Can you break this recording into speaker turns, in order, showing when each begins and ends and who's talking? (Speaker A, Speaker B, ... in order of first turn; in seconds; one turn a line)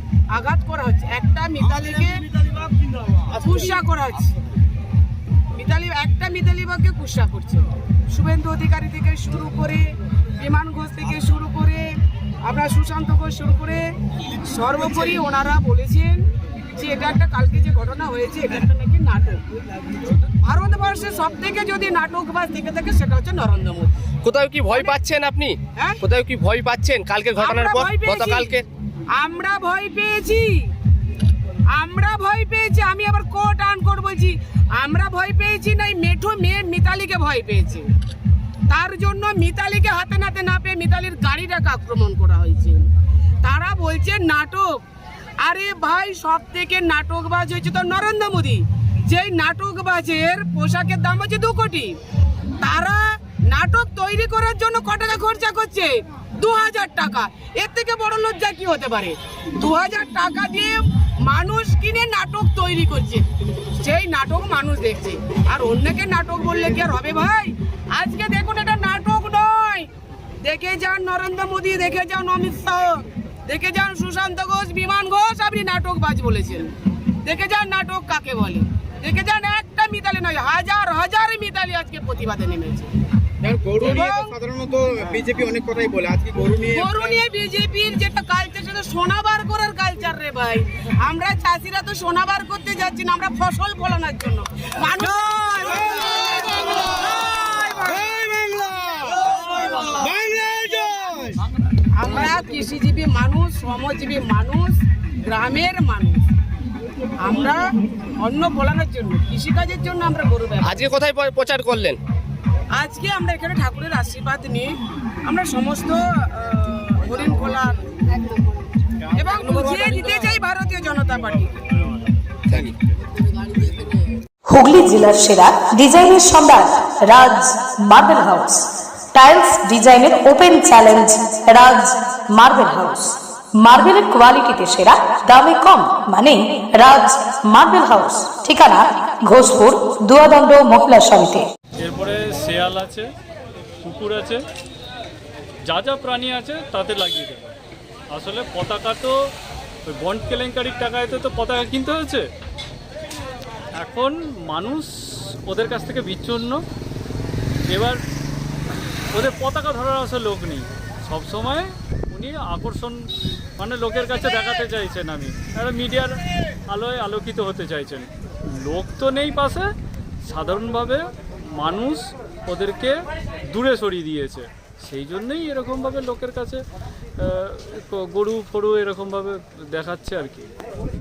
Speaker A: 0.3-2.2
Speaker B: 1.7-3.7
Speaker A: 3.4-4.3
Speaker A: 5.5-11.9
Speaker A: 12.4-13.8
Speaker A: 14.5-16.2
Speaker A: 16.7-19.4
Speaker A: 20.4-23.9
Speaker C: 24.2-28.6
Speaker A: 24.7-25.0
Speaker A: 25.8-26.0
Speaker A: 27.3-28.6
Speaker A: 29.1-30.7
Speaker A: 31.7-37.9
Speaker A: 38.7-42.8
Speaker A: 43.4-44.7
Speaker A: 45.4-52.0
Speaker A: 52.6-63.2
Speaker A: 63.8-69.9
Speaker A: 70.4-76.7
Speaker A: 77.2-82.9
Speaker B: 83.4-87.2
Speaker A: 83.8-84.3
Speaker A: 86.7-98.3
Speaker B: 97.9-101.4
Speaker A: 101.9-106.3
Speaker A: 107.2-107.6
Speaker A: 108.2-110.8
Speaker C: 110.6-112.0
Speaker A: 112.7-114.7
Speaker A: 115.2-117.7
Speaker A: 119.1-121.6
Speaker B: 119.5-120.1
Speaker D: 124.4-141.4
Speaker E: 141.8-143.1
Speaker E: 143.8-144.4
Speaker E: 145.6-147.5
Speaker E: 148.1-149.1
Speaker E: 149.9-152.2
Speaker E: 153.8-154.9
Speaker E: 155.5-156.6
Speaker E: 157.7-158.0
Speaker E: 159.1-162.9
Speaker E: 163.6-168.1
Speaker E: 168.6-169.7
Speaker E: 170.2-171.0
Speaker E: 171.6-172.9
Speaker E: 173.5-176.6
Speaker E: 177.2-180.5